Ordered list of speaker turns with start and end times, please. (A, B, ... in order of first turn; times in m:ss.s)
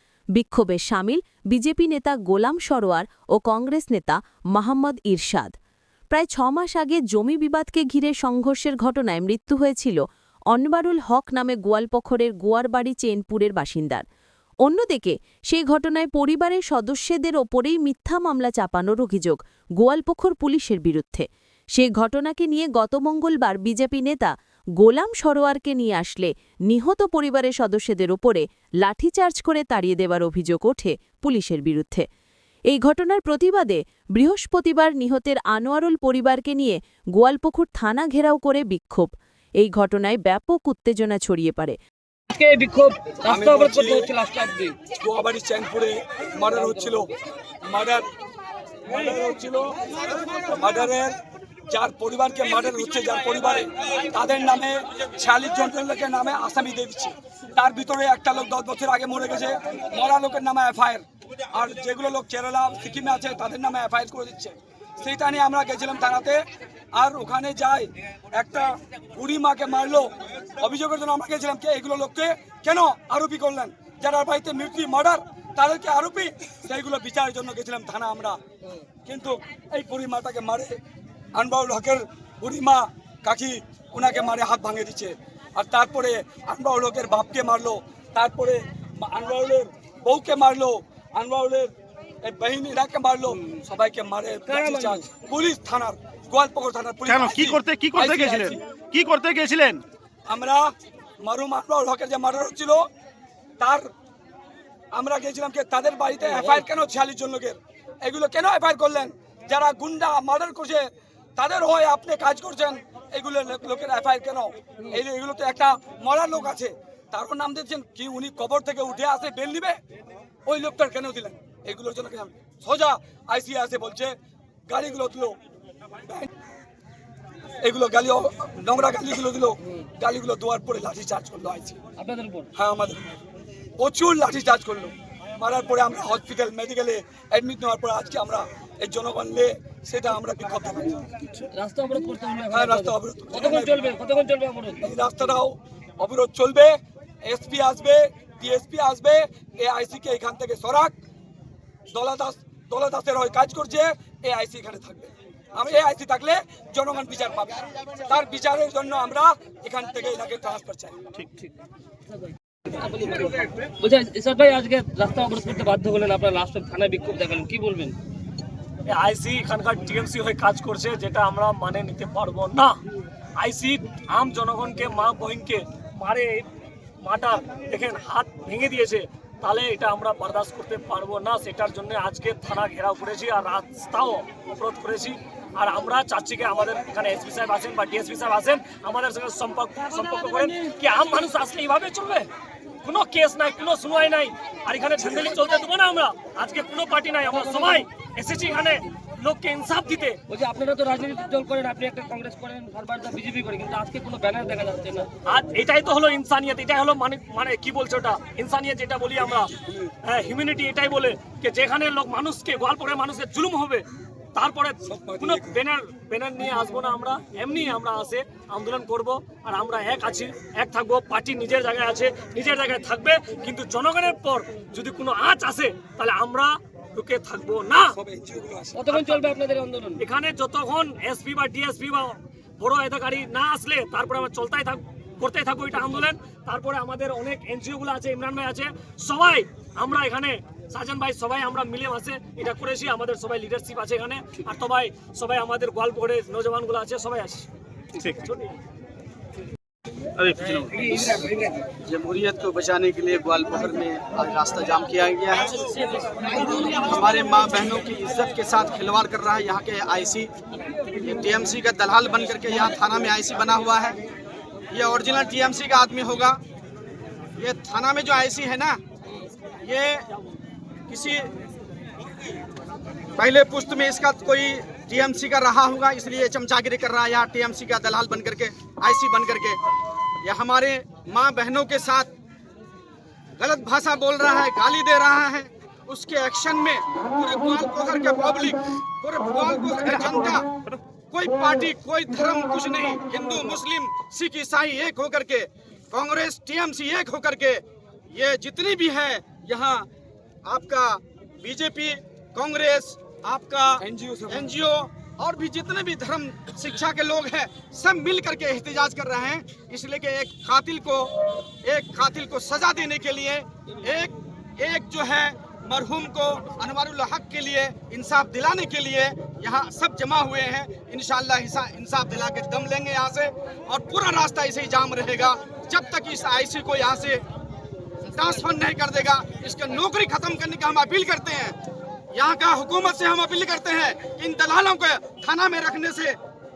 0:00.4-0:05.5 A
0:06.1-0:14.0 A
0:14.6-0:32.1 A
0:32.7-0:41.8 A
0:42.3-0:44.8 B
0:43.2-0:44.1 C
0:45.0-0:47.1 C
0:47.6-0:48.1 C
0:48.8-0:49.8 C
0:50.3-0:51.1 C
0:51.7-1:18.4 C
1:19.0-1:20.8 C
1:21.3-1:38.6 C
1:34.5-1:35.0 B
1:37.1-1:39.8 D
1:40.3-1:42.9 C
1:43.6-1:43.9 C
1:44.9-1:59.8 C
2:00.4-2:05.4 C
2:06.0-2:06.3 C
2:07.6-2:11.8 C
2:12.0-2:12.5 B
2:12.5-2:13.1 C
2:13.8-2:21.3 C
2:21.5-2:24.9 B
2:22.5-2:23.9 C
2:24.8-2:31.0 C
2:31.9-2:41.1 C
2:42.1-2:48.0 B
2:48.9-2:52.8 E
2:53.4-2:56.5 E
2:57.0-3:12.3 E
3:12.8-3:20.2 E
3:17.4-3:17.8 B
3:20.3-3:25.1 B
3:25.2-3:47.9 E
3:29.4-3:29.9 C
3:34.8-3:35.6 C
3:47.9-3:48.9 C
3:48.8-3:50.0 B
3:48.9-3:49.3 E
3:50.0-4:07.5 E
4:08.0-4:08.6 E
4:10.2-4:10.8 D
4:10.9-4:11.6 B
4:11.8-4:20.3 F
4:20.9-4:24.0 F
4:24.7-4:26.4 F
4:27.4-4:28.8 F
4:29.6-4:30.1 F
4:30.9-4:31.3 F
4:33.2-4:39.6 F
4:40.2-4:42.1 F
4:43.4-4:50.5 F
4:51.1-4:59.9 F
5:00.4-5:27.2 F
5:03.8-5:04.5 C
5:28.1-5:31.6 F
5:32.1-5:36.2 F